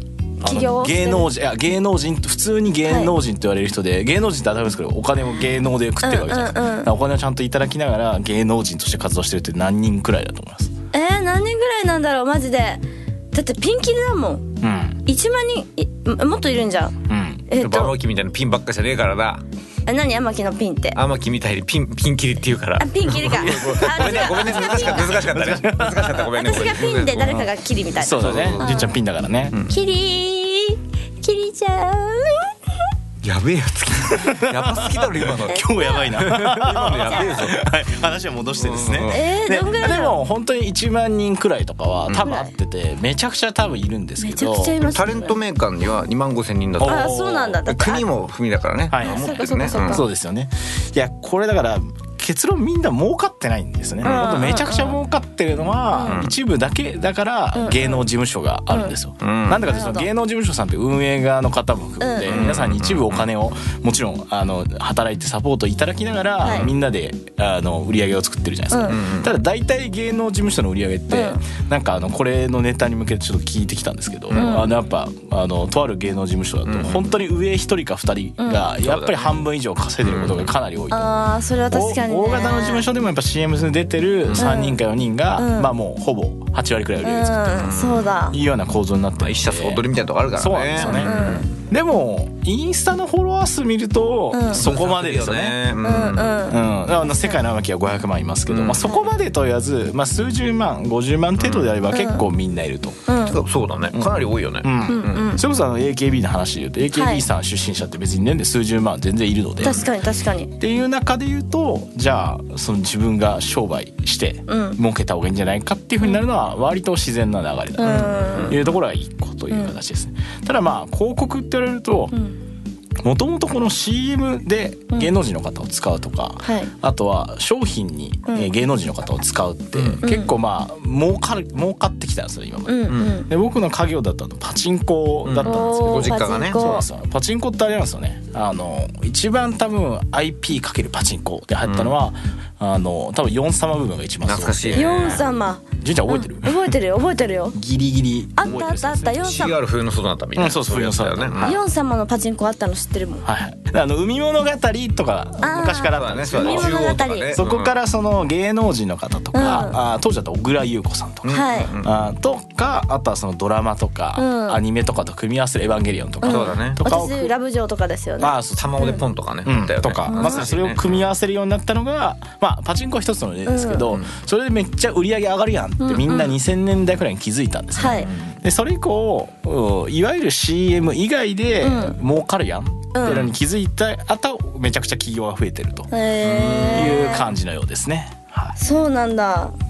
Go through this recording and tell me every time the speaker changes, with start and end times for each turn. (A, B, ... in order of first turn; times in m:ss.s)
0:00.4-0:01.3 A
0:00.4-0:10.7 B
0:02.9-0:03.1 A
0:06.0-0:06.9 A
0:10.9-0:12.8 A
0:13.3-0:14.5 A
0:14.6-0:15.0 B
0:15.0-0:17.0 A
0:17.1-0:17.4 B
0:17.5-0:17.9 A
0:17.6-0:19.4 C
0:19.8-0:21.0 A
0:20.9-0:27.4 C
0:22.8-0:25.2 A
0:23.4-0:26.3 B
0:26.3-0:28.9 A
0:28.0-0:29.6 B
0:28.1-0:28.8 C
0:29.7-0:32.5 A
0:33.2-0:37.6 C
0:34.1-0:44.8 B
0:35.5-0:36.1 A
0:38.6-0:39.2 C
0:39.1-0:40.2 A
0:42.2-0:42.5 A
0:44.2-0:45.4 A
0:44.8-0:50.0 C
0:46.8-0:47.6 B
0:46.8-0:48.0 A
0:48.9-1:21.1 B
0:49.0-0:50.0 A
0:54.0-0:55.0 A
0:55.9-0:56.2 A
0:56.1-0:56.3 C
0:57.5-0:58.0 A
0:59.2-0:59.6 C
0:59.7-1:00.0 A
1:02.0-1:02.5 A
1:02.3-1:03.3 C
1:06.4-1:06.7 A
1:06.4-1:06.7 C
1:08.7-1:09.0 A
1:08.9-1:09.3 C
1:11.1-1:11.4 A
1:14.3-1:14.6 C
1:14.3-1:14.7 A
1:16.6-1:17.1 C
1:18.4-1:18.7 A
1:18.8-1:19.4 C
1:20.0-1:20.5 C
1:20.9-1:22.8 A
1:21.7-1:29.8 B
1:24.3-1:24.5 C
1:24.4-1:24.8 A
1:25.4-1:25.7 A
1:27.0-1:28.4 A
1:27.6-1:28.1 C
1:29.2-1:31.5 C
1:30.4-1:35.6 B
1:30.8-1:31.5 A
1:34.3-1:34.6 A
1:34.5-1:36.5 C
1:35.8-1:36.6 A
1:36.5-1:43.0 B
1:38.5-1:38.9 C
1:41.4-1:41.7 C
1:41.9-1:42.2 A
1:43.1-1:43.4 A
1:43.2-1:45.4 C
1:43.9-1:49.8 B
1:44.9-1:45.4 A
1:46.9-1:47.2 A
1:49.6-1:50.5 A
1:50.6-2:02.1 B
1:54.5-1:54.8 A
1:57.8-1:58.6 A
1:57.8-1:58.6 C
2:03.0-2:26.7 B
2:06.4-2:06.7 A
2:09.7-2:10.0 C
2:10.0-2:10.3 A
2:12.6-2:13.3 A
2:12.9-2:13.2 C
2:15.2-2:16.8 C
2:15.4-2:16.8 A
2:21.6-2:21.9 C
2:24.2-2:25.2 C
2:24.7-2:27.6 A
2:27.5-2:29.5 B
2:28.4-2:29.6 A
2:29.2-2:31.6 C
2:30.4-2:31.6 B
2:31.4-2:33.2 A
2:33.2-2:47.3 B
2:35.4-2:37.4 A
2:35.8-2:37.7 C
2:39.3-2:39.8 A
2:41.2-2:42.0 C
2:41.3-2:41.7 A
2:44.2-2:44.6 A
2:46.2-2:49.0 A
2:46.2-2:46.8 C
2:48.2-2:48.9 B
2:48.6-2:51.1 C
2:49.4-3:05.9 B
2:50.1-2:50.4 A
2:53.4-2:53.9 A
2:55.8-2:56.3 A
2:57.8-2:58.1 A
2:57.9-2:58.2 C
3:01.6-3:02.0 A
3:02.9-3:03.2 A
3:03.0-3:03.3 C
3:05.9-3:07.3 A
3:06.2-3:07.2 C
3:06.7-3:08.6 B
3:08.6-3:09.5 A